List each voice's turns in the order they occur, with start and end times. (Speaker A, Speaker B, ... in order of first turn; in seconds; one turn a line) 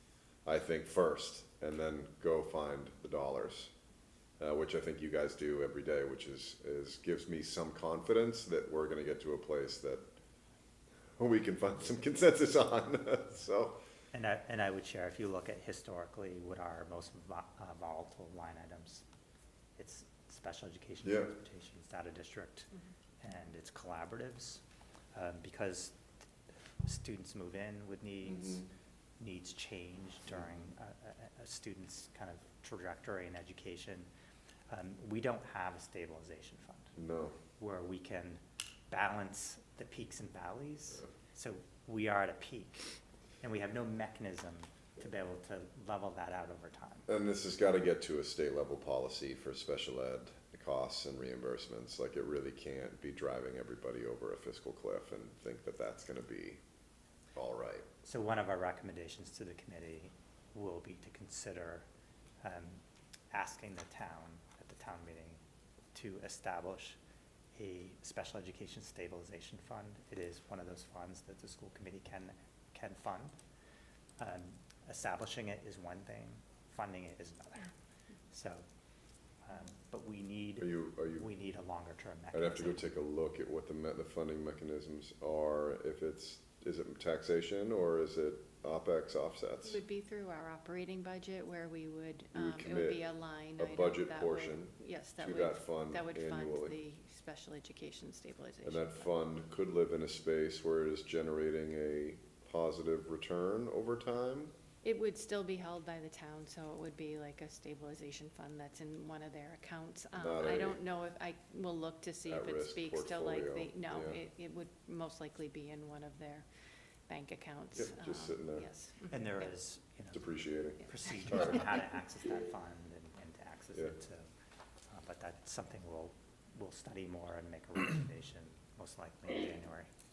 Speaker A: 0.5-3.7
Speaker A: 4.4-10.0
Speaker A: 11.2-13.8
Speaker B: 14.1-19.0
Speaker B: 19.8-22.7
Speaker A: 21.0-21.3
Speaker B: 23.2-24.6
Speaker B: 25.1-26.0
Speaker B: 26.8-28.6
Speaker A: 28.3-28.6
Speaker B: 29.2-34.1
Speaker B: 34.7-36.9
Speaker A: 37.0-37.4
Speaker B: 37.6-42.8
Speaker B: 43.4-47.1
Speaker A: 47.1-56.6
Speaker A: 57.3-57.9
Speaker B: 58.0-61.9
Speaker B: 62.4-62.8
Speaker B: 63.3-65.4
Speaker B: 65.9-67.0
Speaker B: 67.5-73.3
Speaker B: 74.2-77.7
Speaker B: 78.3-78.6
Speaker B: 79.4-82.8
Speaker A: 80.6-81.3
Speaker A: 82.3-89.8
Speaker C: 89.6-99.0
Speaker A: 92.3-96.8
Speaker A: 98.6-104.5
Speaker C: 104.8-116.5
Speaker A: 110.2-110.8
Speaker A: 112.2-114.2
Speaker C: 117.1-119.5
Speaker A: 117.7-118.7
Speaker B: 119.1-120.3
Speaker A: 120.1-120.8
Speaker B: 120.8-124.2
Speaker B: 124.9-129.9